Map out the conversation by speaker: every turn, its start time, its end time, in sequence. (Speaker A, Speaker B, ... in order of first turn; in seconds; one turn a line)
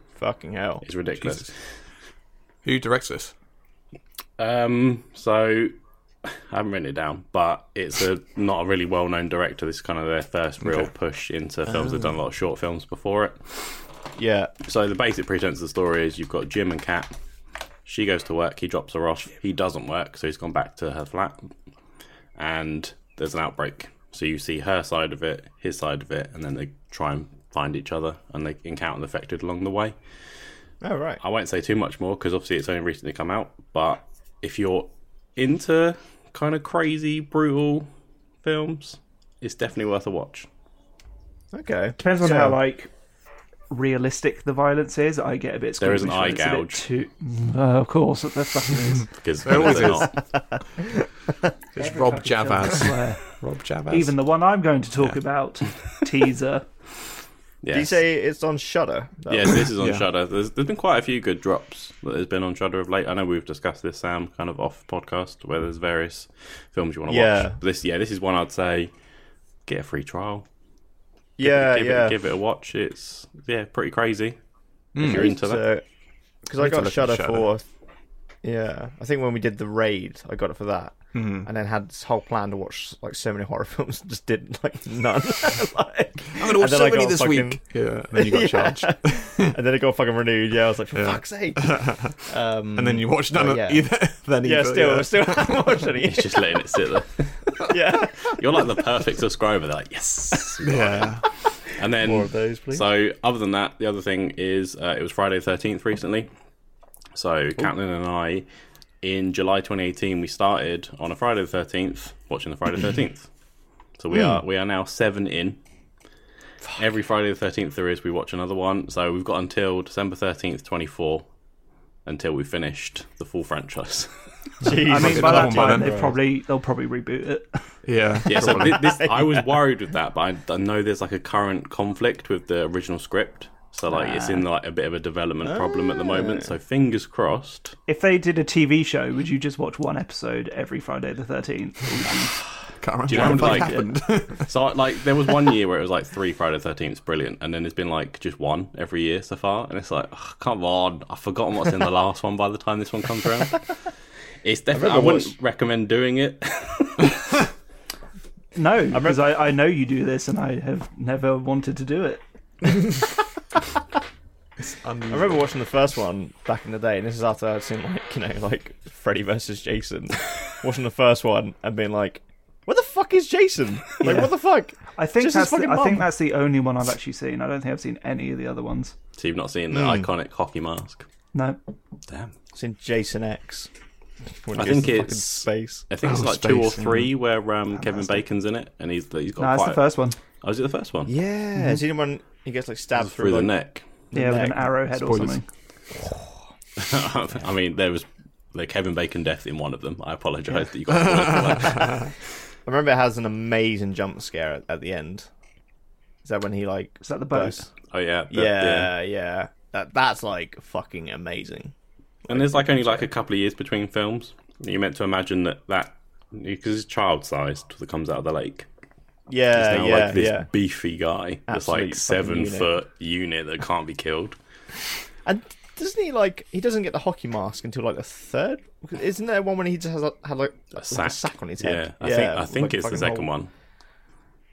Speaker A: 0.2-0.8
Speaker B: 0.8-1.8
Speaker C: 1.2-1.5
Speaker C: 2.6-3.3
Speaker B: 4.4-13.8
Speaker C: 10.6-10.9
Speaker C: 11.7-12.1
Speaker A: 14.2-14.5
Speaker B: 14.6-17.1
Speaker B: 17.9-21.5
Speaker B: 22.4-29.9
Speaker A: 30.8-31.2
Speaker B: 31.2-37.9
Speaker B: 38.4-40.5
Speaker A: 41.5-42.6
Speaker D: 42.0-42.9
Speaker D: 43.7-49.1
Speaker B: 45.8-46.8
Speaker B: 49.2-50.2
Speaker C: 49.4-50.2
Speaker A: 50.2-51.5
Speaker C: 51.7-54.1
Speaker D: 51.8-53.3
Speaker D: 53.9-56.7
Speaker B: 57.6-58.0
Speaker A: 57.7-59.7
Speaker B: 59.3-68.9
Speaker C: 59.7-60.0
Speaker A: 67.1-67.6
Speaker B: 69.7-70.5
Speaker A: 71.4-72.2
Speaker B: 71.4-74.4
Speaker C: 75.0-75.3
Speaker B: 75.0-75.6
Speaker A: 75.0-75.8
Speaker A: 76.5-77.7
Speaker C: 76.6-77.5
Speaker A: 78.4-93.9
Speaker C: 81.1-81.5
Speaker C: 86.3-89.6
Speaker C: 91.0-92.2
Speaker C: 92.8-95.9
Speaker A: 94.4-96.5
Speaker B: 96.0-106.3
Speaker A: 97.7-98.8
Speaker C: 100.6-101.2
Speaker A: 101.8-102.9
Speaker B: 107.2-108.5
Speaker B: 109.0-113.3
Speaker B: 114.0-115.6
Speaker B: 116.7-121.2
Speaker B: 122.1-124.1
Speaker A: 124.6-126.1
Speaker D: 124.9-127.6
Speaker C: 124.9-126.0
Speaker C: 127.8-128.9
Speaker B: 128.3-137.8
Speaker A: 128.7-129.4
Speaker D: 133.9-134.5
Speaker A: 135.4-136.5
Speaker D: 137.9-142.4
Speaker C: 142.8-144.5
Speaker D: 143.1-143.9
Speaker B: 143.1-153.7
Speaker B: 154.4-157.4
Speaker A: 154.7-155.3
Speaker D: 158.6-162.2
Speaker A: 158.9-159.2
Speaker C: 164.6-165.4
Speaker A: 165.1-176.1
Speaker D: 174.0-174.3
Speaker D: 174.9-178.9
Speaker B: 179.2-181.1
Speaker A: 179.7-180.1
Speaker D: 181.3-181.6
Speaker B: 182.1-182.3
Speaker A: 182.5-183.7
Speaker A: 184.4-185.9
Speaker B: 184.6-189.8
Speaker C: 186.0-187.1
Speaker D: 187.8-188.1
Speaker D: 189.4-190.2
Speaker B: 190.4-191.1
Speaker A: 191.1-193.5
Speaker B: 193.0-193.9
Speaker A: 194.1-194.8
Speaker D: 194.1-195.4
Speaker C: 195.0-195.4
Speaker B: 196.8-202.1
Speaker C: 201.1-202.1
Speaker A: 202.7-205.3
Speaker A: 206.2-207.7
Speaker D: 207.0-207.7
Speaker B: 207.9-208.9
Speaker A: 208.3-211.7
Speaker A: 212.3-213.1
Speaker B: 212.3-218.7
Speaker A: 219.3-220.5
Speaker B: 219.5-224.4
Speaker A: 221.5-222.7
Speaker A: 225.2-233.3
Speaker B: 230.8-233.5